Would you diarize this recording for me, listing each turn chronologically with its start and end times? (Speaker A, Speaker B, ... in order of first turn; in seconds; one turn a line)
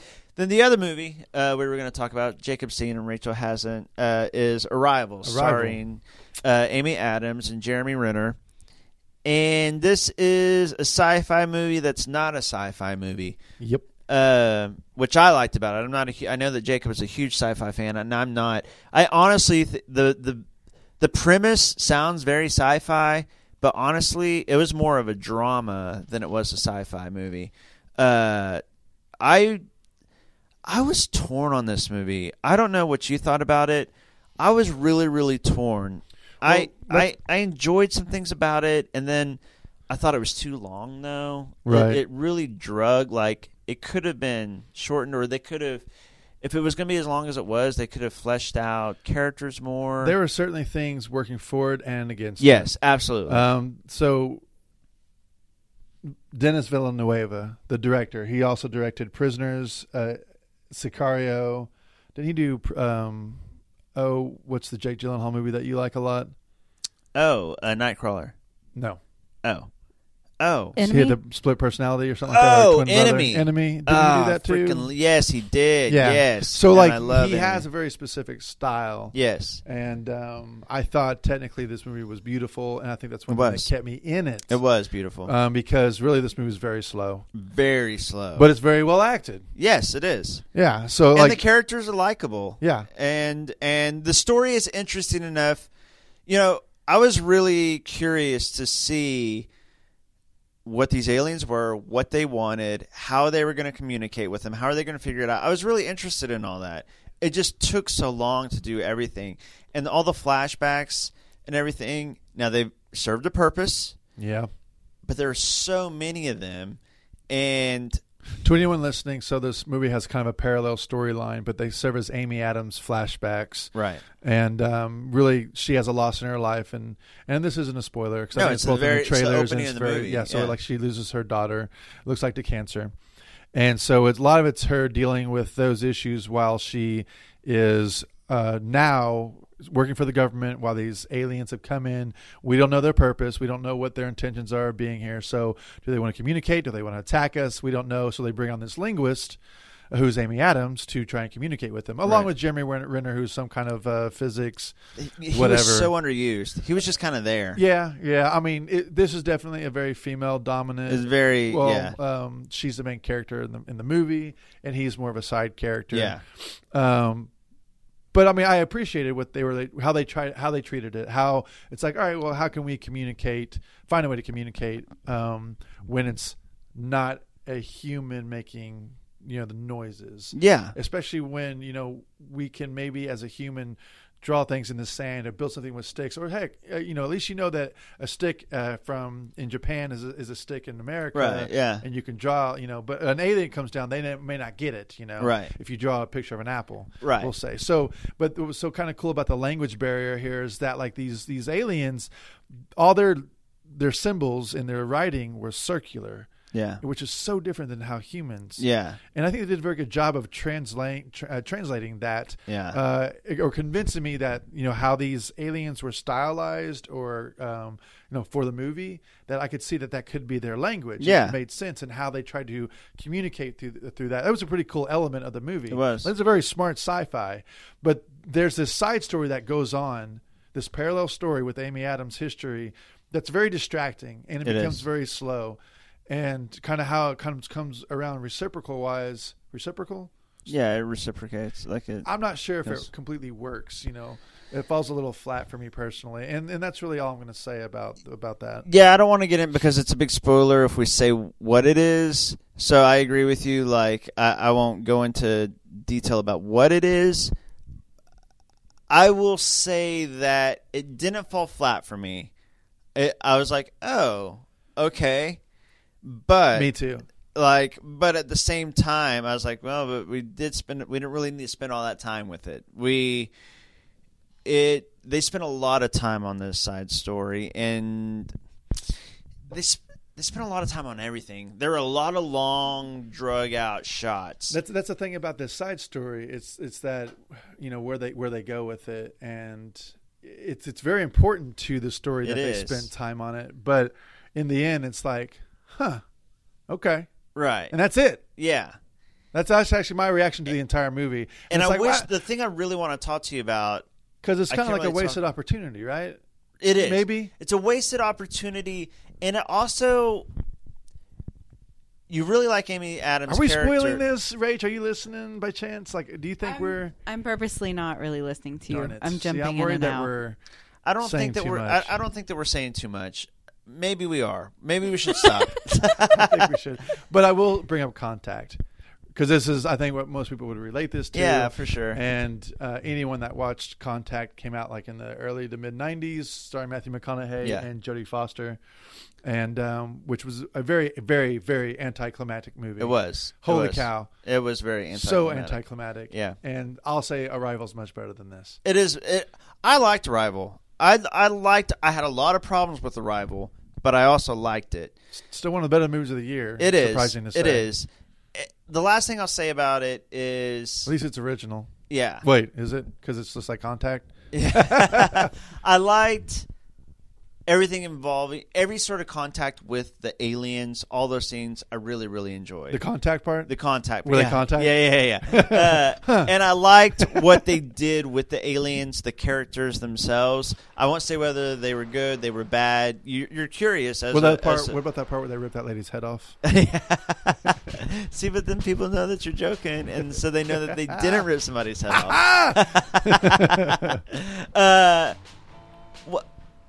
Speaker A: 0.3-8.4
Speaker B: 5.2-5.8
Speaker A: 9.2-13.4
Speaker B: 13.6-13.8
Speaker A: 14.1-20.4
Speaker A: 21.0-28.6
Speaker A: 29.2-29.6
Speaker A: 30.6-39.4
Speaker B: 36.4-37.1
Speaker A: 39.9-45.8
Speaker B: 41.6-42.0
Speaker A: 46.4-50.1
Speaker B: 50.0-52.7
Speaker A: 52.4-53.5
Speaker B: 53.2-54.4
Speaker B: 56.3-60.2
Speaker B: 60.7-63.4
Speaker B: 63.9-66.3
Speaker A: 67.1-68.3
Speaker A: 70.4-70.8
Speaker C: 70.8-71.2
Speaker B: 70.8-74.9
Speaker A: 72.3-77.7
Speaker B: 75.9-79.1
Speaker A: 79.1-79.6
Speaker B: 79.6-84.6
Speaker A: 83.3-83.7
Speaker A: 84.5-85.3
Speaker B: 85.2-87.2
Speaker A: 87.3-88.5
Speaker B: 88.3-89.5
Speaker A: 89.5-90.4
Speaker B: 90.5-91.4
Speaker A: 91.1-95.7
Speaker B: 92.6-92.9
Speaker A: 96.3-99.5
Speaker A: 100.6-114.0
Speaker B: 114.2-114.5
Speaker A: 115.0-116.8
Speaker A: 117.3-118.0
Speaker B: 118.4-132.9
Speaker A: 123.7-124.0
Speaker A: 128.3-130.5
Speaker B: 133.5-149.4
Speaker B: 149.9-154.7
Speaker A: 152.0-152.3
Speaker A: 155.0-157.6
Speaker B: 155.3-155.9
Speaker B: 157.5-167.3
Speaker A: 160.9-161.9
Speaker A: 165.9-166.2
Speaker B: 168.1-202.1
Speaker A: 180.3-180.7
Speaker A: 191.1-191.8
Speaker A: 195.2-195.5
Speaker A: 197.0-197.3
Speaker B: 202.8-206.3
Speaker A: 206.5-206.8
Speaker B: 206.8-235.6
Speaker A: 208.6-209.0
Speaker A: 212.5-212.8
Speaker A: 221.0-221.3
Speaker A: 225.7-226.1
Speaker A: 234.4-234.8
Speaker B: 236.1-240.1
Speaker A: 240.5-242.1
Speaker B: 242.0-248.7
Speaker A: 248.7-257.3
Speaker A: 258.9-262.3
Speaker A: 262.9-265.4
Speaker A: 266.0-266.7
Speaker B: 266.5-267.1
Speaker A: 267.3-273.3
Speaker A: 274.4-278.3
Speaker A: 279.5-284.6
Speaker B: 284.5-296.0
Speaker A: 292.2-292.9
Speaker B: 296.7-297.1
Speaker A: 297.3-297.7
Speaker B: 297.7-298.2
Speaker A: 298.4-298.7
Speaker B: 299.3-302.1
Speaker A: 301.5-303.8
Speaker B: 304.2-306.2
Speaker A: 304.5-305.2
Speaker A: 306.6-310.2
Speaker B: 306.8-307.3
Speaker A: 312.1-314.0
Speaker B: 313.3-316.9
Speaker C: 316.4-320.1
Speaker B: 318.7-320.4
Speaker A: 320.8-326.5
Speaker B: 321.0-321.9
Speaker B: 326.1-328.6
Speaker B: 329.1-338.6
Speaker A: 331.1-332.0
Speaker B: 339.2-344.1
Speaker A: 342.8-346.4
Speaker B: 344.9-348.6
Speaker A: 348.6-354.9
Speaker B: 355.1-357.7
Speaker A: 356.6-360.9
Speaker B: 360.9-361.7
Speaker A: 361.9-362.2
Speaker B: 362.2-365.3
Speaker A: 364.3-366.5
Speaker A: 367.5-372.8
Speaker B: 372.7-373.5
Speaker A: 373.5-384.8
Speaker B: 374.0-376.3
Speaker B: 377.0-377.4
Speaker B: 384.1-386.4
Speaker A: 386.4-395.1
Speaker B: 391.9-394.0